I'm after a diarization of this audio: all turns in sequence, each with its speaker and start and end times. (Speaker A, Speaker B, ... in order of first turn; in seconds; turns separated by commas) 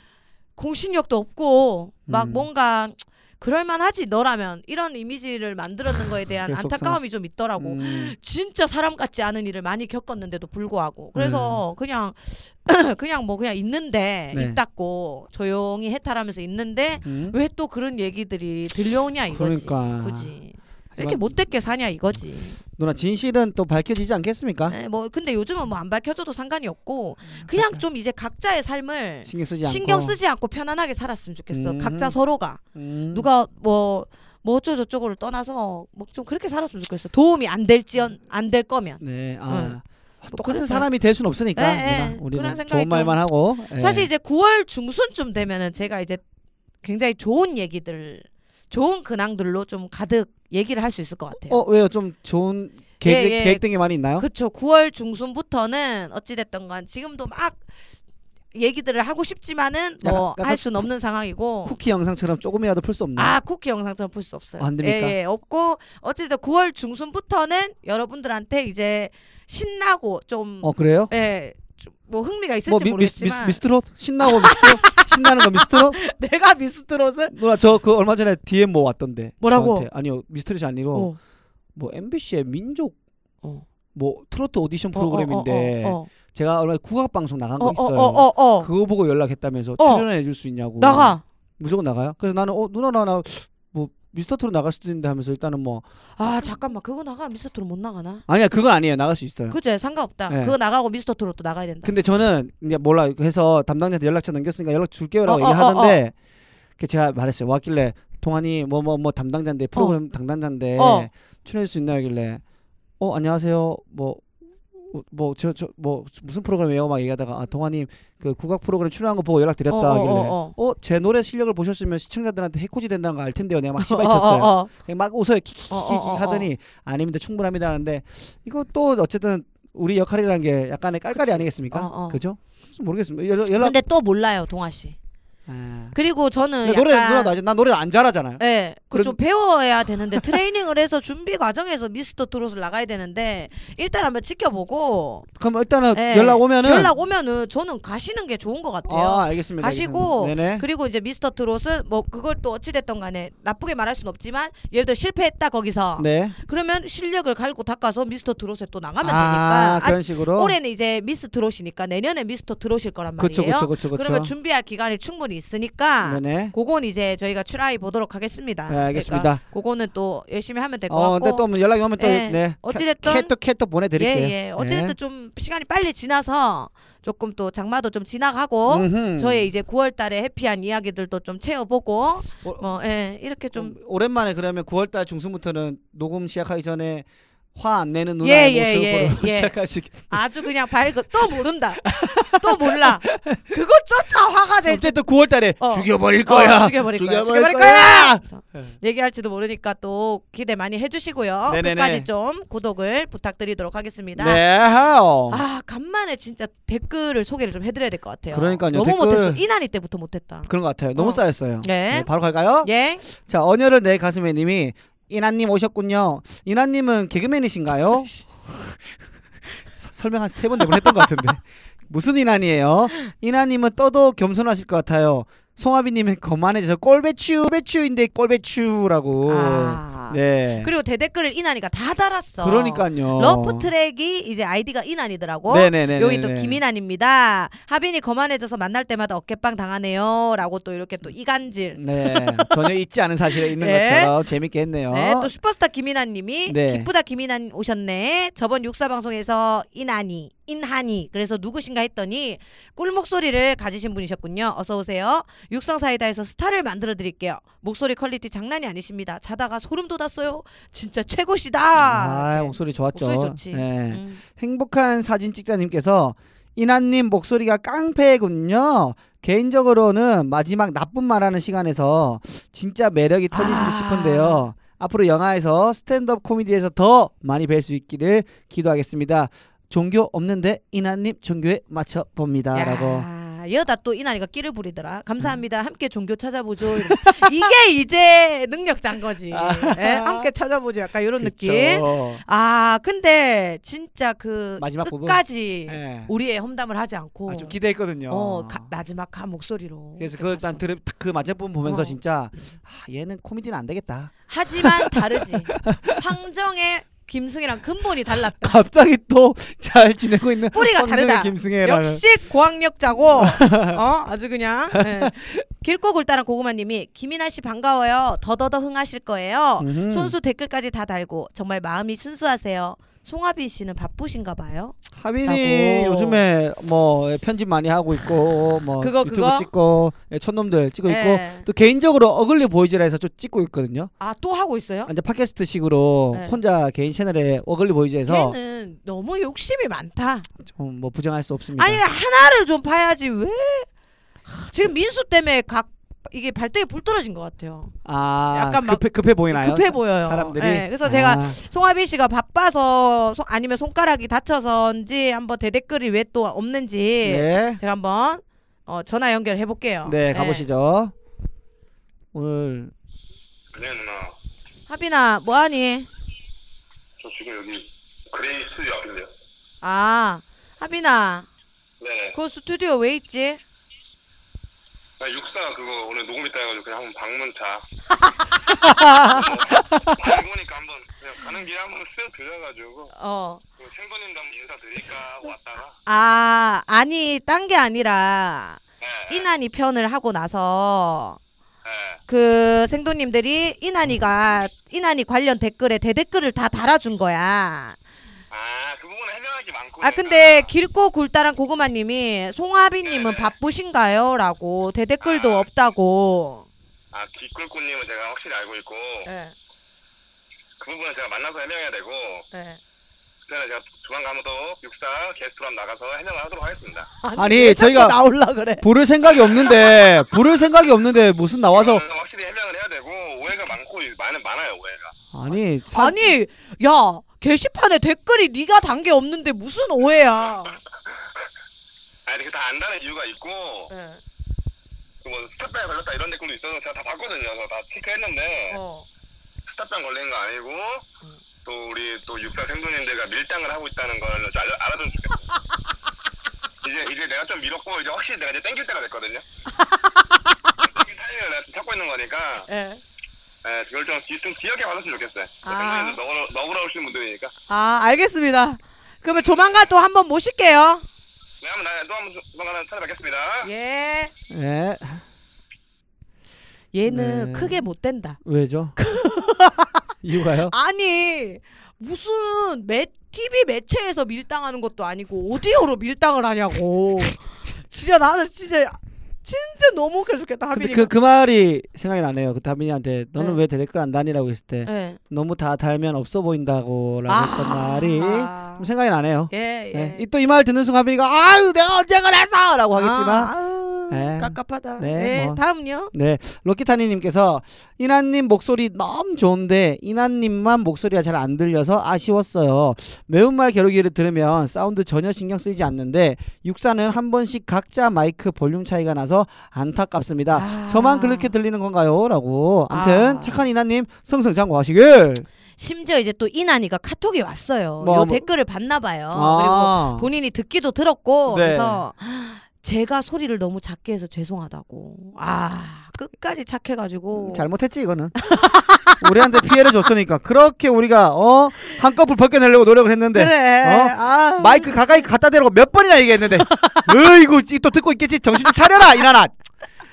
Speaker A: 0.6-22.6, Speaker B: 2.1-2.5, Speaker B: 6.5-7.0, Speaker B: 7.6-8.2, Speaker B: 11.2-11.6, Speaker B: 14.3-14.6, Speaker B: 17.1-17.4, Speaker B: 19.3-20.3, Speaker B: 21.0-21.3, Speaker B: 22.8-24.8, Speaker A: 24.7-32.6, Speaker B: 27.4-27.8, Speaker B: 29.3-30.2, Speaker B: 31.5-32.2, Speaker B: 32.8-33.3, Speaker A: 33.1-39.8, Speaker B: 39.0-44.1, Speaker A: 40.3-40.9, Speaker A: 41.5-43.2, Speaker A: 43.8-46.2, Speaker A: 46.8-51.6, Speaker B: 51.4-54.3, Speaker A: 53.0-53.6, Speaker A: 54.2-57.6, Speaker A: 58.5-61.8, Speaker B: 60.0-60.9, Speaker B: 61.6-63.4, Speaker A: 63.2-73.6, Speaker B: 64.6-65.2, Speaker B: 70.6-71.1, Speaker B: 72.7-76.0, Speaker A: 74.2-77.3, Speaker B: 77.3-81.1, Speaker A: 79.4-79.9, Speaker B: 81.8-83.0, Speaker B: 84.0-95.8, Speaker A: 84.9-86.1, Speaker A: 87.6-88.7, Speaker A: 89.8-90.1, Speaker A: 90.8-91.2, Speaker A: 96.2-98.2, Speaker B: 98.3-99.6, Speaker A: 99.5-101.9, Speaker B: 100.3-100.5, Speaker B: 101.8-106.1, Speaker A: 105.2-106.0, Speaker B: 106.8-112.4, Speaker A: 110.8-111.1, Speaker B: 113.0-133.8, Speaker A: 119.7-120.5, Speaker A: 123.8-124.7, Speaker A: 125.7-126.5, Speaker A: 131.1-132.2, Speaker A: 133.6-135.0, Speaker B: 135.5-136.0, Speaker A: 135.9-137.3, Speaker B: 136.6-139.2, Speaker A: 138.4-145.3, Speaker B: 140.1-140.4, Speaker B: 145.4-146.9, Speaker A: 145.9-171.5, Speaker B: 148.9-150.7, Speaker B: 156.0-156.4, Speaker B: 159.0-160.6, Speaker B: 163.2-164.3, Speaker B: 166.0-166.5, Speaker B: 168.7-169.4, Speaker B: 170.9-174.9, Speaker A: 172.0-173.3, Speaker A: 174.0-183.8, Speaker B: 178.7-179.5, Speaker B: 183.6-190.2, Speaker A: 188.2-195.0, Speaker B: 191.3-193.4, Speaker B: 194.6-198.7, Speaker A: 195.6-204.4, Speaker B: 201.5-202.1, Speaker B: 204.2-205.4, Speaker A: 205.3-212.1, Speaker B: 208.3-209.4, Speaker B: 210.5-218.8, Speaker A: 212.6-213.0, Speaker B: 219.7-230.7, Speaker A: 229.3-242.7, Speaker B: 232.4-233.7, Speaker B: 235.5-236.6, Speaker B: 241.8-245.3, Speaker A: 243.4-244.1, Speaker A: 244.9-264.2, Speaker B: 246.5-246.9, Speaker B: 261.8-283.1, Speaker A: 273.3-274.4, Speaker A: 282.5-297.6, Speaker B: 286.8-287.5, Speaker B: 289.3-290.3, Speaker B: 291.2-292.2, Speaker B: 294.6-296.1, Speaker B: 297.3-298.7, Speaker A: 298.1-300.6, Speaker B: 300.0-306.1, Speaker A: 301.6-302.0, Speaker A: 304.3-308.6, Speaker B: 308.3-312.0, Speaker A: 310.5-326.2, Speaker B: 313.2-313.8, Speaker B: 314.7-315.4, Speaker B: 319.6-320.1, Speaker B: 324.9-333.9, Speaker A: 328.8-329.5, Speaker A: 330.9-331.5, Speaker A: 334.0-334.9, Speaker B: 334.9-338.4, Speaker A: 336.1-336.4, Speaker A: 338.1-340.3, Speaker B: 340.4-341.8, Speaker A: 341.6-343.7, Speaker A: 344.3-347.7, Speaker B: 347.9-351.4, Speaker A: 348.3-360.5, Speaker B: 357.0-357.6, Speaker B: 359.9-360.9, Speaker B: 362.1-362.7, Speaker C: 363.5-364.1, Speaker A: 364.7-365.9, Speaker C: 367.0-369.1, Speaker A: 369.6-371.3, Speaker C: 371.8-372.2, Speaker A: 372.1-373.4, Speaker C: 375.0-377.6, Speaker B: 378.5-380.2, Speaker C: 378.9-382.9, Speaker A: 382.9-383.4, Speaker C: 383.6-385.8, Speaker A: 385.9-391.2, Speaker C: 388.8-389.3, Speaker C: 391.6-392.0, Speaker A: 392.1-397.8, Speaker C: 398.3-400.5, Speaker A: 399.8-406.5, Speaker C: 402.8-403.3, Speaker C: 405.0-405.5, Speaker C: 406.9-409.1, Speaker A: 409.1-409.3, Speaker C: 410.6-412.3, Speaker A: 412.3-412.6, Speaker C: 413.3-416.9, Speaker A: 417.0-418.6, Speaker B: 417.2-418.0, Speaker B: 418.6-421.8, Speaker C: 419.3-419.9, Speaker C: 421.5-424.9, Speaker B: 425.1-426.1, Speaker A: 425.7-430.6, Speaker C: 432.1-433.7, Speaker A: 433.7-434.0, Speaker C: 435.0-438.6, Speaker A: 438.5-438.9, Speaker C: 439.4-440.9, Speaker C: 441.4-445.2, Speaker C: 446.6-449.2, Speaker A: 449.6-450.5, Speaker C: 450.6-452.5, Speaker A: 452.5-452.8, Speaker C: 453.4-457.3, Speaker A: 455.4-456.0, Speaker A: 457.5-460.9, Speaker C: 461.4-463.5, Speaker A: 463.4-464.1, Speaker B: 464.3-465.0, Speaker A: 466.7-468.2, Speaker B: 466.9-467.6, Speaker B: 468.2-468.8, Speaker A: 468.8-480.9, Speaker B: 470.0-470.5, Speaker B: 480.5-493.3, Speaker A: 484.6-485.0, Speaker A: 487.1-488.7, Speaker A: 489.3-490.1, Speaker A: 492.8-495.9, Speaker B: 493.9-495.4, Speaker B: 495.9-515.3, Speaker A: 510.3-511.3, Speaker A: 512.7-513.4, Speaker A: 515.6-527.5, Speaker B: 517.8-518.3, Speaker B: 519.1-520.1, Speaker B: 521.3-521.8, Speaker B: 527.1-528.3, Speaker A: 528.2-529.5, Speaker B: 528.9-539.4, Speaker A: 533.1-534.8, Speaker A: 536.5-536.9